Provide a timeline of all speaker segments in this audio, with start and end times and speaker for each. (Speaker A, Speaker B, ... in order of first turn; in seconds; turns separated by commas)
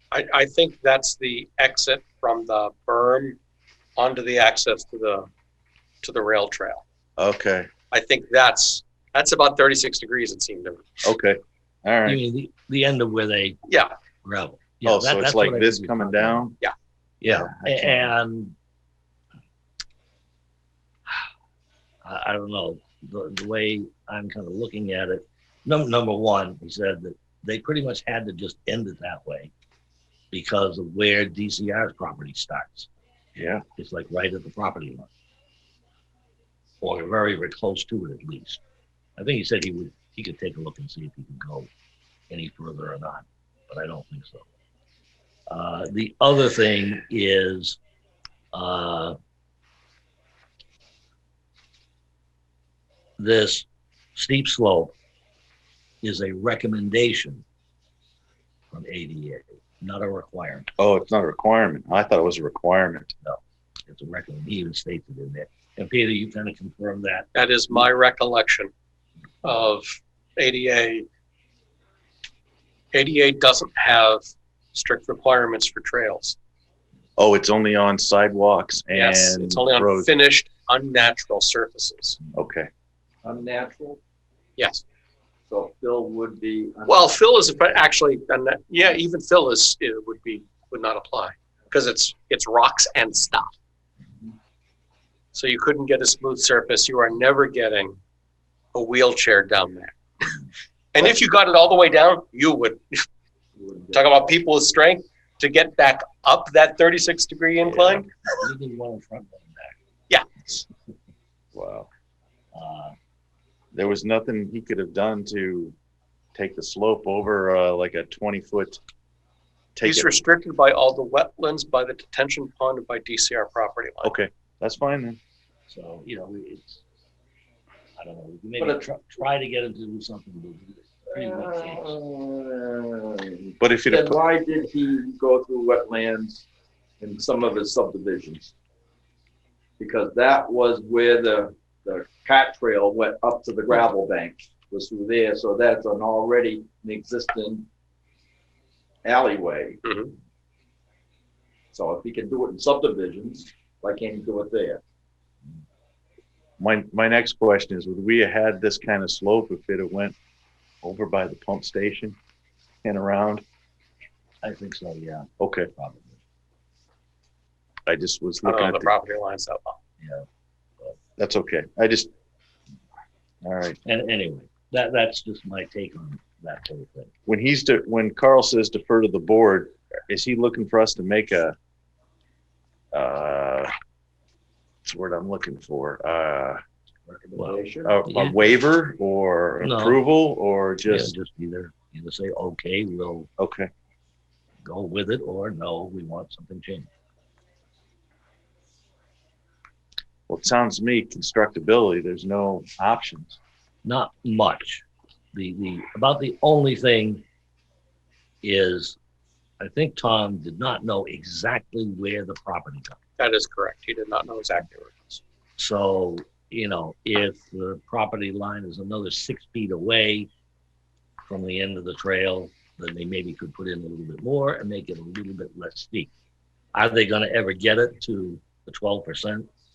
Speaker A: 0.1-3.4, Speaker A: 4.0-5.3, Speaker A: 6.0-6.8, Speaker B: 7.2-7.7, Speaker A: 7.9-10.8, Speaker B: 11.0-12.2, Speaker C: 12.1-13.6, Speaker A: 13.7-13.9, Speaker C: 14.2-16.5, Speaker B: 14.8-16.6, Speaker C: 17.2-18.6, Speaker B: 17.3-18.1, Speaker C: 22.0-29.5, Speaker C: 30.3-32.9, Speaker B: 33.4-33.6, Speaker C: 33.8-35.1, Speaker C: 36.8-38.6, Speaker C: 39.2-41.7, Speaker C: 42.3-44.5, Speaker C: 45.5-47.8, Speaker C: 48.5-49.2, Speaker C: 53.2-55.0, Speaker C: 56.0-57.5, Speaker C: 58.7-60.7, Speaker B: 60.8-63.1, Speaker C: 63.2-67.3, Speaker A: 67.3-68.7, Speaker A: 69.4-71.1, Speaker A: 72.9-74.2, Speaker A: 74.7-76.4, Speaker B: 77.2-80.1, Speaker A: 78.9-82.2, Speaker B: 82.3-82.7, Speaker D: 83.2-84.0, Speaker A: 84.6-84.8, Speaker D: 85.5-87.2, Speaker A: 86.9-93.5, Speaker A: 95.3-98.0, Speaker A: 98.7-100.0, Speaker A: 100.9-103.0, Speaker D: 103.6-104.3, Speaker A: 103.9-108.1, Speaker C: 107.6-109.8, Speaker A: 110.1-110.4, Speaker B: 111.5-111.9, Speaker C: 112.5-113.0, Speaker B: 113.7-115.8, Speaker B: 116.3-118.8, Speaker B: 119.8-120.2, Speaker A: 119.8-124.1, Speaker B: 124.0-125.2, Speaker C: 125.7-126.8, Speaker C: 128.0-132.0, Speaker D: 128.6-128.9, Speaker D: 131.1-136.5, Speaker B: 133.6-134.2, Speaker D: 137.0-138.5, Speaker D: 139.8-147.7, Speaker D: 149.0-149.8, Speaker A: 149.9-150.1, Speaker D: 151.7-154.8, Speaker B: 156.6-160.2, Speaker B: 160.8-162.2, Speaker B: 162.8-163.4, Speaker C: 164.4-166.2, Speaker B: 165.4-165.7, Speaker B: 167.9-168.9, Speaker A: 168.4-169.8, Speaker C: 170.0-170.3, Speaker B: 171.2-172.1, Speaker B: 173.4-173.8, Speaker C: 173.8-177.1, Speaker B: 177.3-181.6, Speaker B: 182.9-183.7, Speaker B: 184.9-186.6, Speaker C: 187.1-188.6, Speaker D: 187.3-188.0, Speaker B: 187.8-191.2, Speaker C: 189.6-190.0, Speaker C: 190.9-193.3, Speaker B: 193.4-193.7, Speaker C: 194.6-196.9, Speaker B: 200.3-203.4, Speaker C: 203.8-207.2, Speaker C: 208.4-209.0, Speaker C: 209.6-213.0, Speaker A: 213.2-215.2, Speaker C: 215.6-220.3, Speaker C: 221.2-226.1, Speaker C: 226.7-229.5